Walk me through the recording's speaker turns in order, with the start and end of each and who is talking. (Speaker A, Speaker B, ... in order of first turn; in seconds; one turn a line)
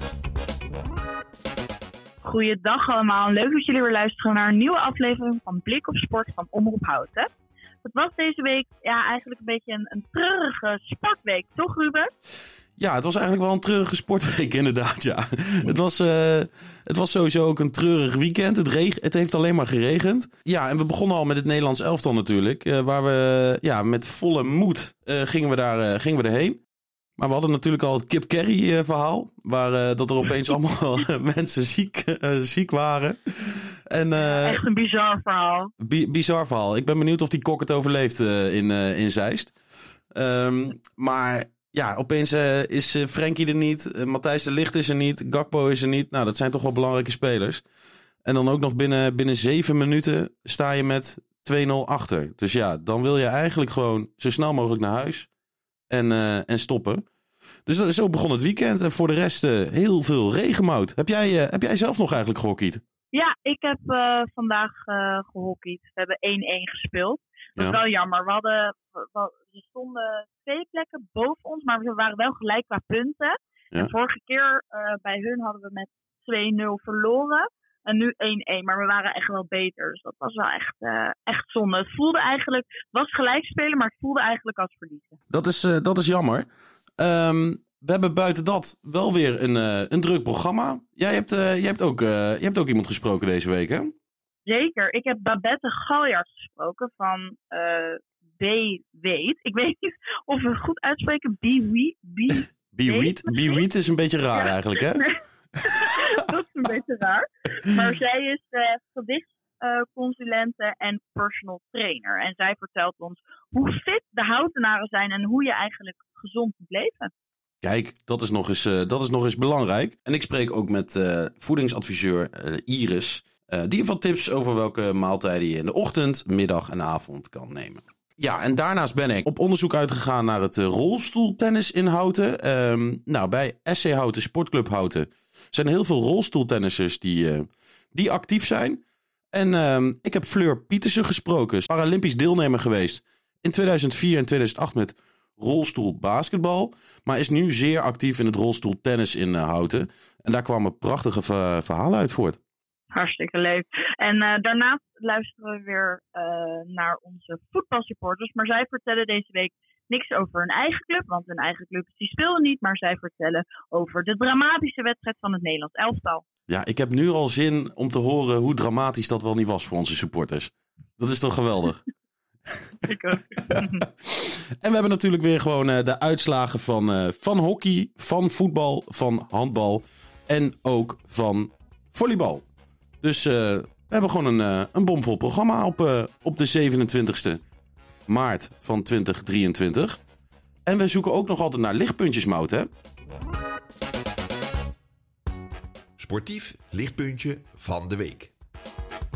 Speaker A: 2.2-7.3
Speaker A: 7.8-12.1
Speaker B: 12.8-26.6
Speaker B: 27.2-34.6
Speaker A: 34.2-35.7
Speaker B: 35.8-39.5
Speaker B: 40.1-47.6
Speaker B: 48.2-55.3
Speaker B: 55.9-57.0
Speaker B: 57.7-62.8
Speaker A: 63.1-85.2
Speaker B: 85.3-86.5
Speaker B: 87.0-93.9
Speaker A: 94.5-103.6
Speaker B: 102.4-105.0
Speaker A: 104.3-117.1
Speaker B: 117.6-138.8
Speaker B: 139.3-152.4
Speaker A: 152.9-166.2
Speaker B: 166.5-171.8
Speaker A: 172.8-173.8
Speaker B: 174.6-182.4
Speaker B: 183.0-187.4
Speaker B: 188.1-190.0
Speaker B: 190.7-192.7
Speaker C: 196.0-198.3